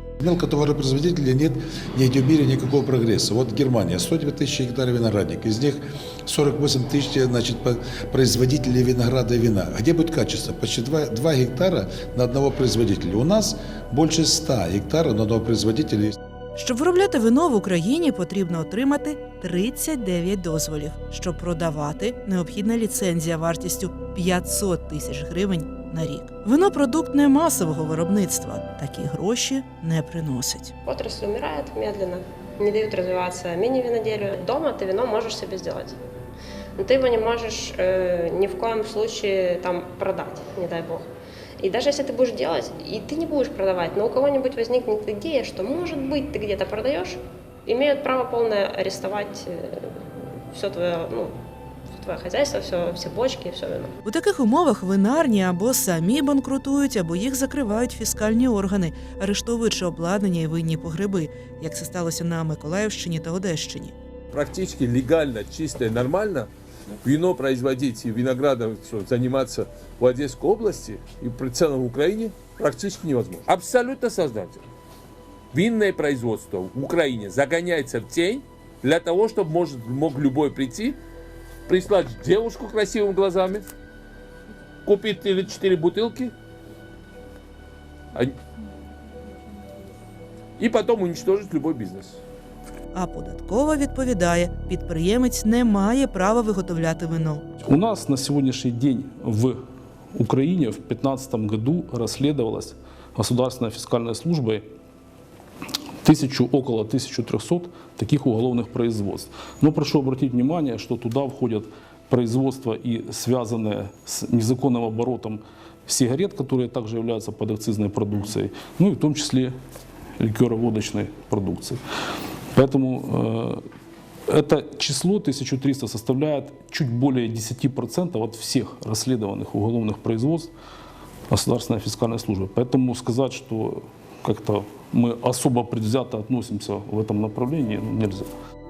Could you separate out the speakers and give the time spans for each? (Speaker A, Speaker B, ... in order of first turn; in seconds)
Speaker A: 0.2-16.1
Speaker B: 16.6-30.7, 54.0-63.9, 92.9-97.4
Speaker C: 30.9-36.0, 36.8-41.1, 41.6-51.3, 51.9-53.9
Speaker D: 64.3-66.5, 67.0-74.7, 75.5-81.0, 81.7-83.7, 84.8-86.3, 90.6-92.2
Speaker E: 97.7-99.6, 100.1-104.7, 106.0-119.5, 120.2-121.8, 122.5-123.6, 124.3-130.5, 131.3-138.3